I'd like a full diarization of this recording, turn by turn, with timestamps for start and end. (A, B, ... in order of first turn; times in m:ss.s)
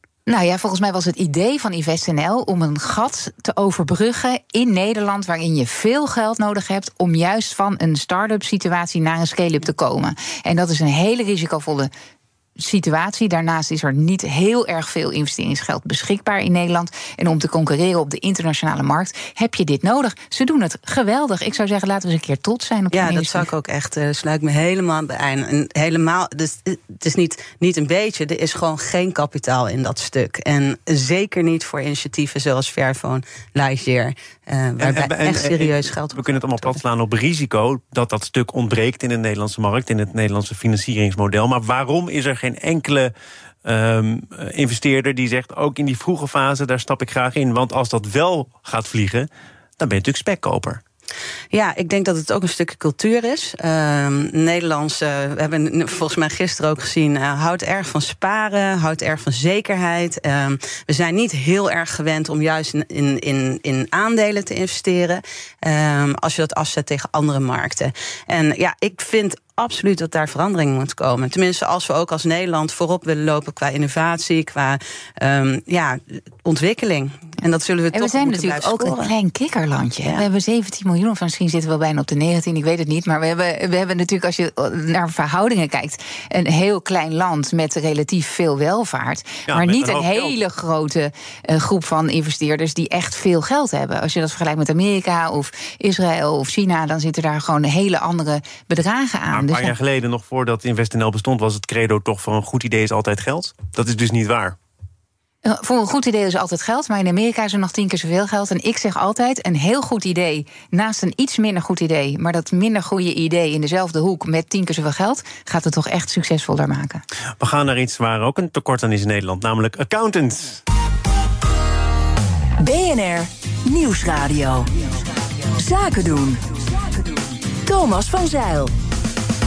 0:00.3-0:11.9 A
0:12.6-0:23.5 A
0:22.9-0:36.8 B
0:34.8-0:43.1 C
0:43.6-0:50.8 C
0:51.5-1:19.1 B
1:17.9-1:39.7 A
1:29.5-1:30.3 C
1:39.3-1:44.6 C
1:45.4-1:57.0 A
1:57.4-2:00.6 C
2:02.6-2:04.7 D
2:05.5-2:08.7 D